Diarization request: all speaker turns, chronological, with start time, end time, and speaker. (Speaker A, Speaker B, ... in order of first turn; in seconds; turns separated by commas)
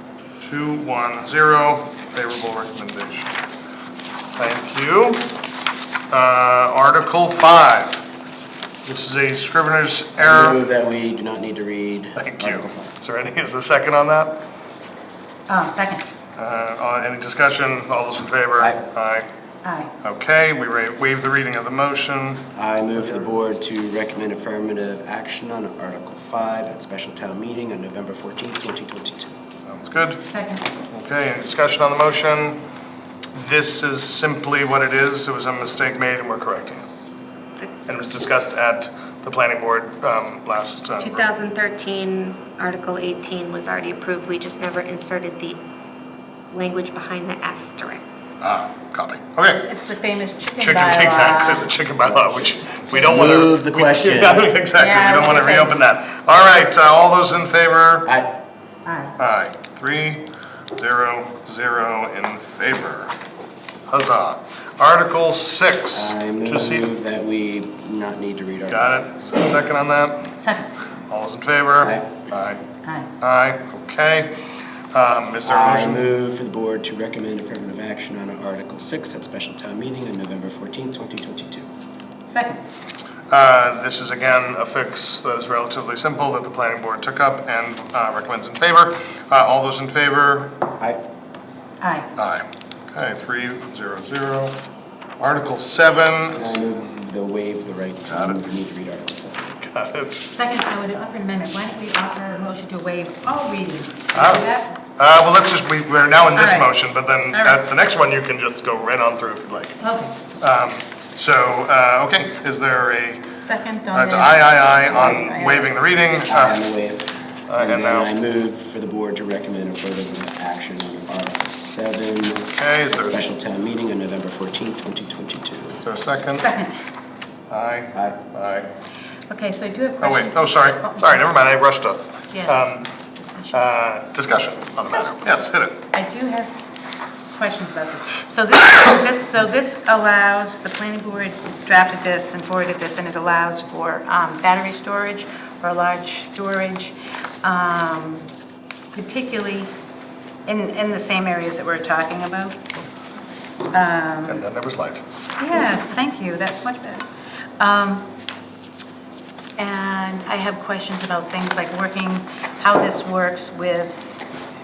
Speaker A: 0.4-3.3, Speaker A: 4.4-5.3, Speaker A: 6.1-8.1, Speaker A: 8.8-10.6, Speaker B: 10.2-12.9, Speaker A: 12.2-14.4, Speaker C: 15.5-16.1, Speaker A: 16.4-19.3, Speaker C: 19.6-19.9, Speaker A: 20.0-23.3, Speaker B: 22.6-29.3, Speaker A: 29.7-30.2, Speaker C: 30.2-30.7, Speaker A: 30.9-32.6, Speaker A: 33.3-36.9, Speaker A: 37.9-41.3, Speaker D: 41.0-45.6, Speaker D: 46.5-48.0, Speaker A: 48.4-49.7, Speaker C: 49.7-51.7, Speaker A: 50.6-58.1, Speaker B: 53.1-54.5, Speaker C: 54.7-55.8, Speaker B: 58.1-58.3, Speaker C: 58.9-59.2, Speaker A: 59.2-63.1, Speaker A: 63.9-66.9, Speaker B: 65.9-69.0, Speaker A: 68.7-70.3, Speaker C: 70.3-70.7, Speaker A: 71.1-72.6, Speaker B: 71.8-72.1, Speaker C: 72.8-73.1, Speaker A: 73.2-74.3, Speaker A: 74.9-76.1, Speaker B: 75.5-81.7, Speaker C: 82.3-82.6, Speaker A: 83.3-90.6, Speaker C: 91.8-92.1, Speaker A: 92.2-94.6, Speaker A: 95.2-96.6, Speaker B: 96.4-99.6, Speaker A: 98.1-98.4, Speaker A: 99.6-100.3, Speaker C: 100.2-104.8, Speaker A: 104.1-109.8, Speaker C: 106.3-106.7, Speaker C: 107.3-107.6, Speaker C: 109.8-110.2, Speaker A: 110.4-113.3, Speaker C: 113.4-115.7, Speaker A: 113.9-116.6, Speaker B: 114.9-115.3, Speaker B: 116.3-125.8, Speaker A: 117.5-118.1, Speaker A: 122.6-123.3, Speaker A: 125.8-126.5, Speaker C: 126.0-126.8, Speaker A: 127.5-128.7, Speaker B: 127.9-128.2, Speaker C: 129.3-131.2, Speaker A: 130.0-132.9, Speaker C: 132.3-133.6, Speaker A: 133.5-135.8, Speaker C: 135.9-136.5, Speaker C: 137.3-148.3, Speaker C: 148.9-149.7, Speaker C: 150.5-152.6, Speaker C: 153.7-154.4, Speaker A: 154.3-155.0, Speaker C: 155.4-157.1, Speaker C: 157.6-158.1, Speaker C: 159.6-164.2